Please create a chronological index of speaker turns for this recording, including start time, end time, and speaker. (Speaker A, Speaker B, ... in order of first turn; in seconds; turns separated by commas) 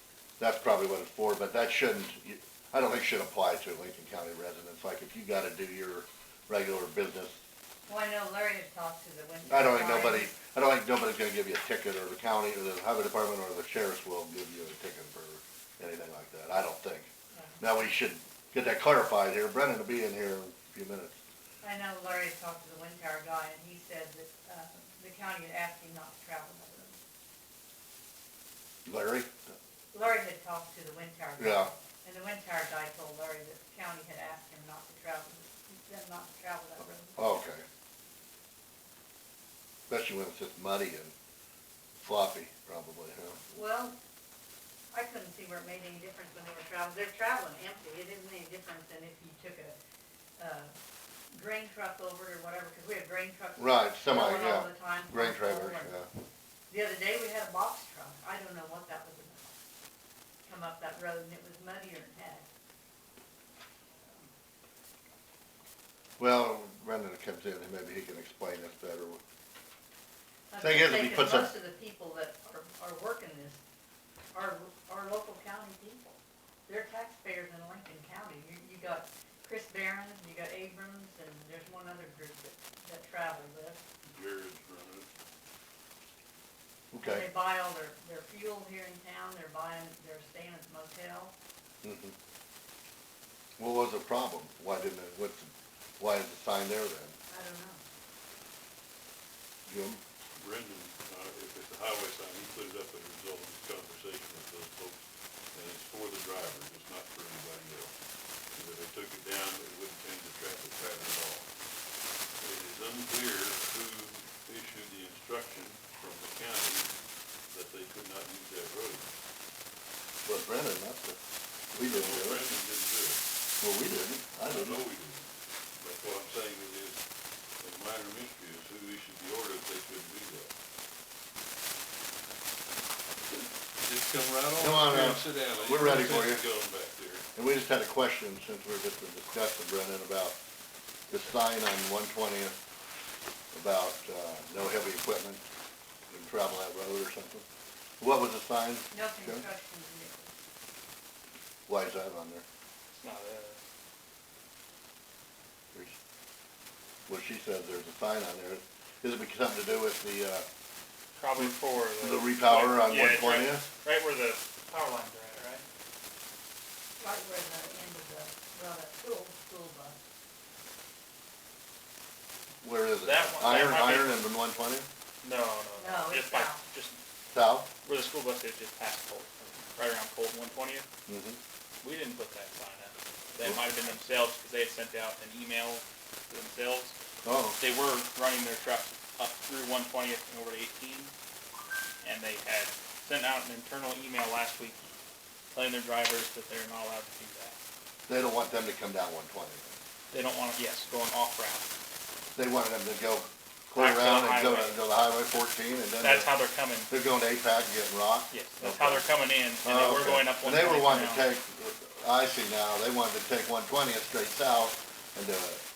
Speaker A: 0.4-7.4, Speaker B: 7.9-10.3, Speaker A: 9.5-21.2, Speaker B: 21.6-27.0, Speaker A: 28.9-29.4, Speaker B: 29.9-37.3, Speaker A: 31.4-31.7, Speaker A: 37.2-37.6, Speaker A: 39.9-41.1, Speaker A: 42.0-43.5, Speaker B: 43.5-44.0, Speaker B: 44.9-49.8, Speaker B: 50.4-50.7, Speaker B: 51.3-55.9, Speaker A: 53.6-56.1, Speaker B: 56.7-59.5, Speaker B: 60.5-62.5, Speaker A: 66.2-69.2, Speaker B: 70.5-73.6, Speaker A: 70.6-71.5, Speaker B: 74.3-76.1, Speaker B: 76.7-83.8, Speaker C: 84.0-85.1, Speaker A: 86.9-87.3, Speaker B: 87.0-91.3, Speaker A: 91.8-92.2, Speaker A: 93.6-97.2, Speaker B: 97.3-97.8, Speaker A: 99.7-100.0, Speaker C: 100.4-107.9, Speaker C: 108.5-111.5, Speaker C: 112.4-116.9, Speaker C: 117.5-119.1, Speaker A: 120.2-121.2, Speaker A: 121.7-122.4, Speaker C: 121.8-123.2, Speaker A: 123.6-124.8, Speaker C: 124.5-127.0, Speaker C: 127.6-130.5, Speaker C: 133.3-137.2, Speaker A: 134.6-136.4, Speaker A: 137.3-140.4, Speaker A: 141.1-142.6, Speaker A: 143.5-145.4, Speaker A: 146.1-147.4, Speaker A: 148.0-149.4, Speaker B: 148.9-150.3, Speaker A: 151.7-152.4, Speaker D: 152.9-153.6, Speaker A: 157.1-160.5, Speaker D: 161.2-165.6, Speaker A: 161.4-163.7, Speaker B: 167.0-170.0, Speaker A: 172.6-174.9, Speaker D: 173.0-174.3, Speaker D: 175.2-177.0, Speaker B: 175.8-176.6, Speaker A: 177.3-177.7, Speaker D: 177.8-180.9, Speaker A: 181.1-181.4, Speaker D: 181.8-186.9, Speaker A: 187.2-187.6, Speaker D: 187.6-191.1, Speaker D: 192.0-194.8, Speaker D: 195.5-197.6, Speaker A: 198.1-199.8, Speaker D: 200.1-201.7, Speaker A: 202.3-206.3, Speaker D: 203.8-204.8, Speaker D: 206.0-206.9, Speaker A: 206.9-209.1, Speaker D: 208.3-211.3, Speaker A: 209.6-215.6